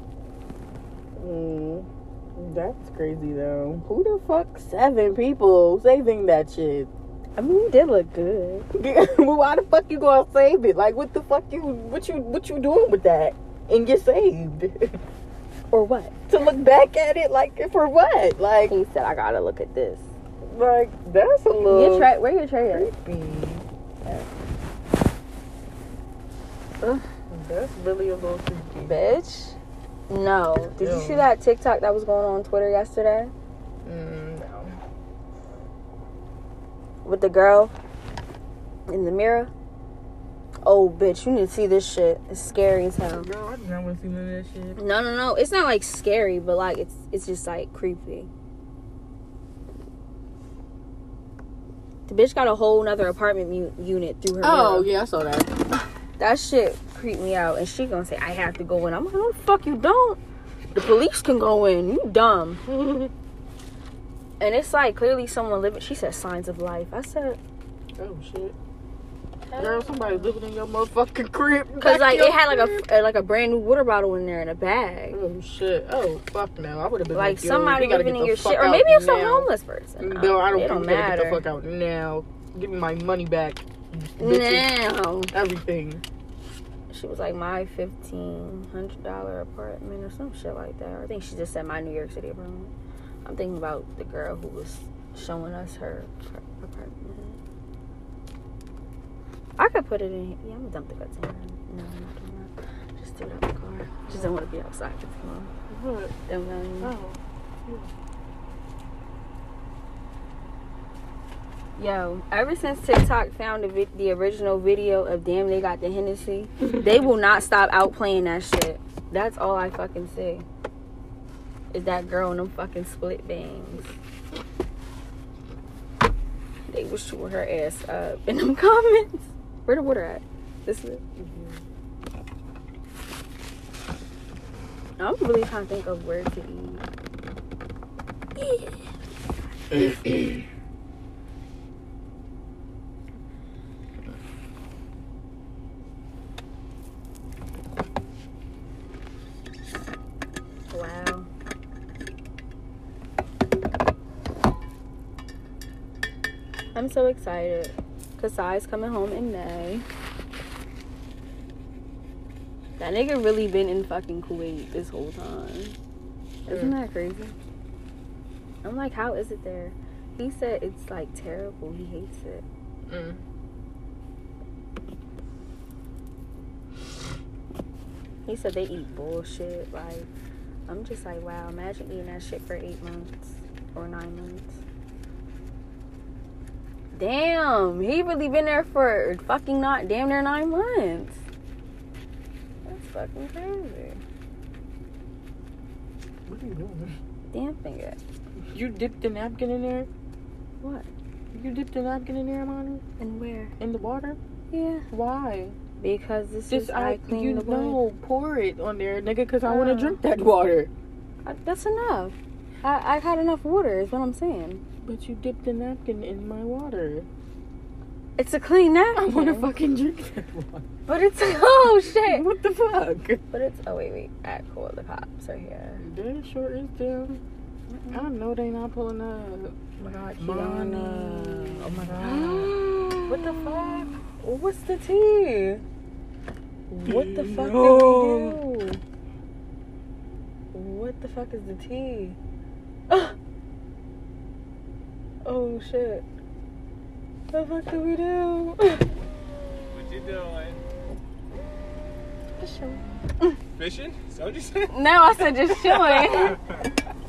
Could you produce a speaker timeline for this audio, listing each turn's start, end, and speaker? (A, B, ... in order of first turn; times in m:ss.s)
0:01.2-0:06.9 A
0:07.4-0:08.6 B
0:08.7-0:15.0 A
0:15.7-0:16.2 B
0:16.3-0:18.7 A
0:18.7-0:20.1 B
0:20.4-0:22.1 A
0:21.6-0:22.9 B
0:22.7-0:23.6 A
0:27.3-0:29.0 A
0:28.8-0:29.6 B
0:30.1-0:33.3 B
0:30.8-0:31.3 A
0:33.8-0:34.8 A
0:37.0-0:37.7 B
0:38.9-0:39.5 B
0:40.6-0:43.3 B
0:43.0-0:44.8 A
0:44.8-0:48.3 B
0:52.1-0:54.9 B
0:54.4-0:55.6 A
0:56.2-1:00.2 B
1:00.7-1:02.6 B
1:02.7-1:03.1 A
1:04.4-1:07.4 B
1:08.0-1:08.6 A
1:09.5-1:10.3 B
1:09.6-1:12.8 A
1:11.8-1:15.2 B
1:15.1-1:24.7 A
1:17.1-1:21.4 B
1:24.2-1:25.3 B
1:25.3-1:26.0 A
1:26.9-1:32.7 B
1:33.2-1:37.4 B
1:39.6-1:45.5 B
1:45.7-1:46.1 A
1:46.3-1:46.9 B
1:46.8-1:47.9 A
1:51.8-2:00.4 B
2:01.7-2:03.9 B
2:06.7-2:11.0 B
2:11.2-2:11.6 A
2:15.0-2:16.9 B
2:19.7-2:20.2 A
2:30.7-2:31.3 B
2:36.7-2:39.9 B
2:42.8-2:45.8 B
2:46.4-2:47.4 B
2:46.5-2:46.8 A
2:48.6-2:52.4 B
2:52.9-2:53.2 A
2:58.2-3:00.1 B
3:00.7-3:04.6 B
3:06.9-3:11.2 B
3:12.6-3:14.0 B
3:16.3-3:17.0 A
3:17.3-3:18.0 B
3:18.5-3:19.9 A
3:20.6-3:20.9 B
3:21.3-3:22.8 A
3:23.0-3:23.5 B
3:23.6-3:24.2 A
3:24.5-3:24.9 B
3:24.9-3:25.6 A
3:25.8-3:27.8 B
3:26.5-3:30.7 A
3:29.4-3:30.0 B
3:31.2-3:34.6 B
3:34.8-3:37.1 A
3:38.2-3:39.5 B
3:39.0-3:40.6 A
3:40.9-3:42.2 B
3:41.9-3:43.2 A
3:43.3-3:45.8 B
3:45.8-3:47.2 A
3:47.7-3:48.0 B
3:47.9-3:54.0 A
3:49.8-3:52.5 B
3:53.1-3:55.6 B
3:56.7-3:58.8 B
3:56.9-3:58.4 A
4:00.5-4:02.2 B
4:02.9-4:03.2 B
4:05.2-4:06.0 B
4:07.3-4:08.9 B
4:09.7-4:10.6 C
4:12.4-4:13.4 B
4:13.6-4:14.8 C
4:14.7-4:16.4 B
4:15.6-4:16.5 C